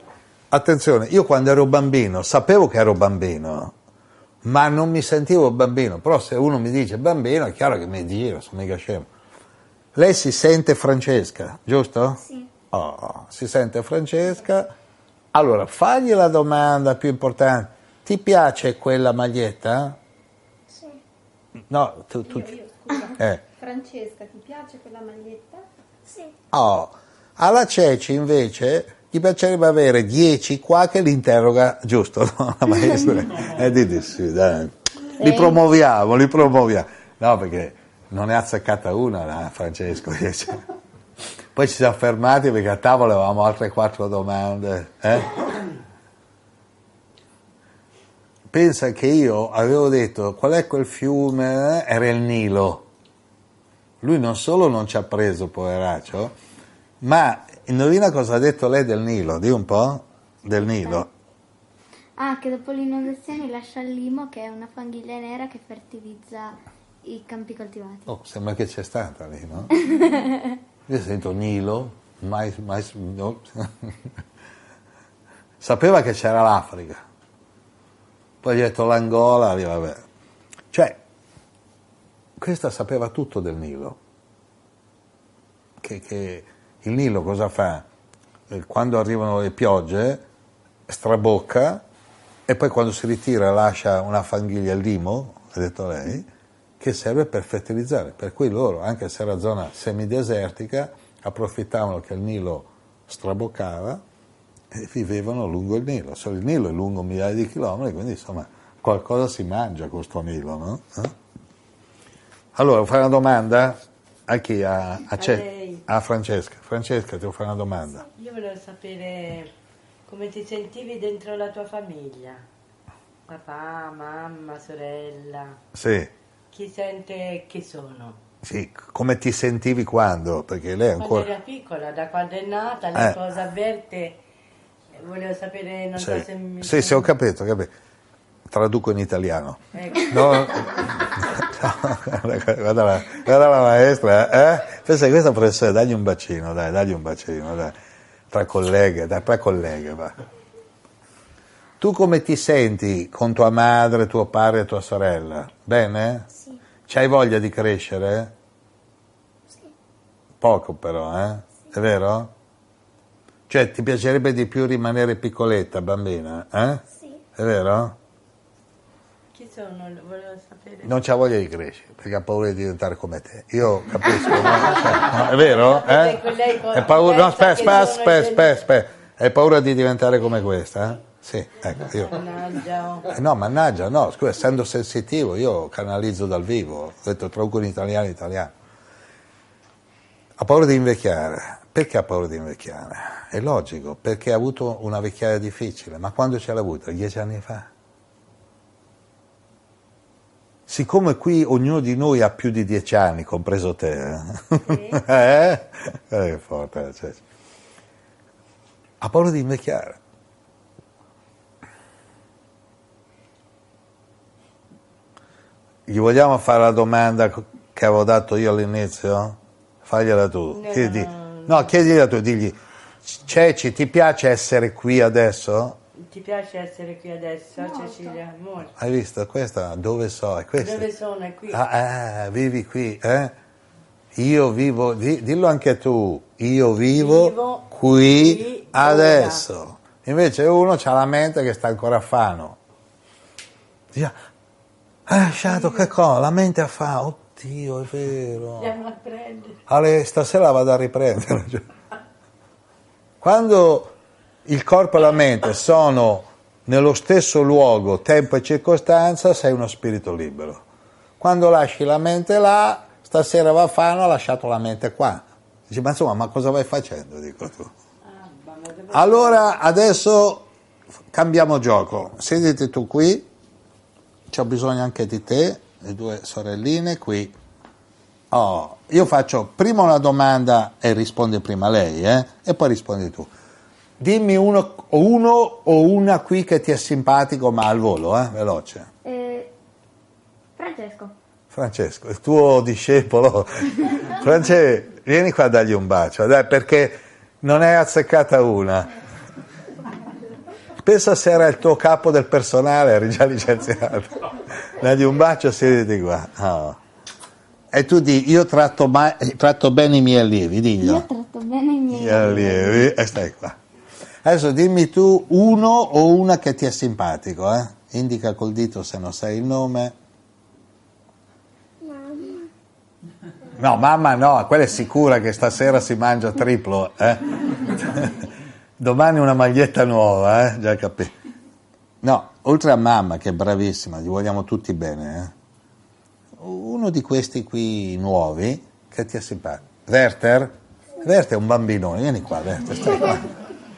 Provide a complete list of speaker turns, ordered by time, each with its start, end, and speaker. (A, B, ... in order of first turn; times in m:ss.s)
0:00.5-0:03.7 A
0:04.4-0:09.1 A
0:10.0-0:12.2 A
0:12.2-0:12.5 B
0:12.7-0:14.7 A
0:15.3-0:20.0 A
0:20.7-0:21.0 B
0:21.7-0:22.6 A
0:22.2-0:25.6 C
0:23.2-0:23.4 A
0:26.1-0:26.3 B
0:26.5-0:40.6 A
0:35.2-0:35.6 B
0:41.6-0:45.4 A
0:48.5-0:52.9 A
0:54.0-0:56.4 A
0:57.0-1:01.1 A
1:00.5-1:01.1 B
1:02.2-1:08.1 B
1:08.1-1:09.7 A
1:09.7-1:10.4 B
1:10.9-1:14.0 A
1:15.6-1:17.0 A
1:18.4-1:20.0 A
1:20.7-1:21.0 A
1:22.4-1:24.0 A
1:25.8-1:27.8 A
1:28.5-1:30.2 A
1:30.9-1:31.8 A
1:32.5-1:36.3 A
1:36.8-1:44.0 A
1:44.7-1:51.1 A
1:52.6-1:58.0 A
1:55.1-1:55.8 D
1:58.2-1:59.5 D
2:00.1-2:02.5 D
2:03.3-2:05.6 D
2:05.8-2:06.1 A
2:06.5-2:08.2 D
2:08.4-2:11.3 A
2:11.0-2:14.2 D
2:12.9-2:13.2 A
2:14.9-2:17.1 D
2:16.0-2:17.7 A
2:18.5-2:27.8 A
2:19.7-2:20.7 D
2:28.3-2:30.2 A
2:31.8-2:36.3 A
2:36.3-2:36.6 B
2:36.9-2:38.3 A
2:40.4-2:42.3 A
2:43.5-2:46.8 A
2:46.9-2:47.2 B
2:47.4-2:48.0 A
2:49.3-2:51.0 D
2:50.8-3:02.2 A
2:55.0-2:58.6 D
3:02.0-3:03.1 D
3:03.1-3:08.5 A
3:10.4-3:17.7 A
3:20.7-3:27.2 A
3:24.7-3:25.1 D
3:29.0-3:30.0 A
3:35.9-3:45.8 A
3:40.5-3:41.8 D
3:46.0-3:48.7 D
3:47.6-3:48.1 B
3:48.8-3:50.9 A
3:50.6-3:51.6 D
3:51.5-3:53.3 A
3:54.2-4:02.6 A
3:56.9-3:59.4 D
4:05.1-4:08.8 A
4:05.5-4:05.9 D
4:08.6-4:09.6 D
4:09.7-4:11.6 A
4:13.2-4:13.9 A
4:14.5-4:20.6 A
4:21.2-4:27.7 A
4:28.0-4:29.6 D
4:28.9-4:30.5 A
4:31.1-4:33.3 A
4:34.3-4:37.4 A
4:38.3-4:43.3 A
4:44.0-4:48.9 A
4:49.0-4:49.5 B
4:50.6-4:51.1 B
4:51.5-4:58.9 A
5:00.8-5:06.8 A
5:07.7-5:11.1 A
5:10.8-5:12.9 B
5:11.9-5:13.6 A
5:14.2-5:19.9 A
5:21.8-5:22.5 B
5:23.6-5:28.3 A
5:28.8-5:31.1 A
5:32.0-5:35.3 A
5:36.4-5:43.3 A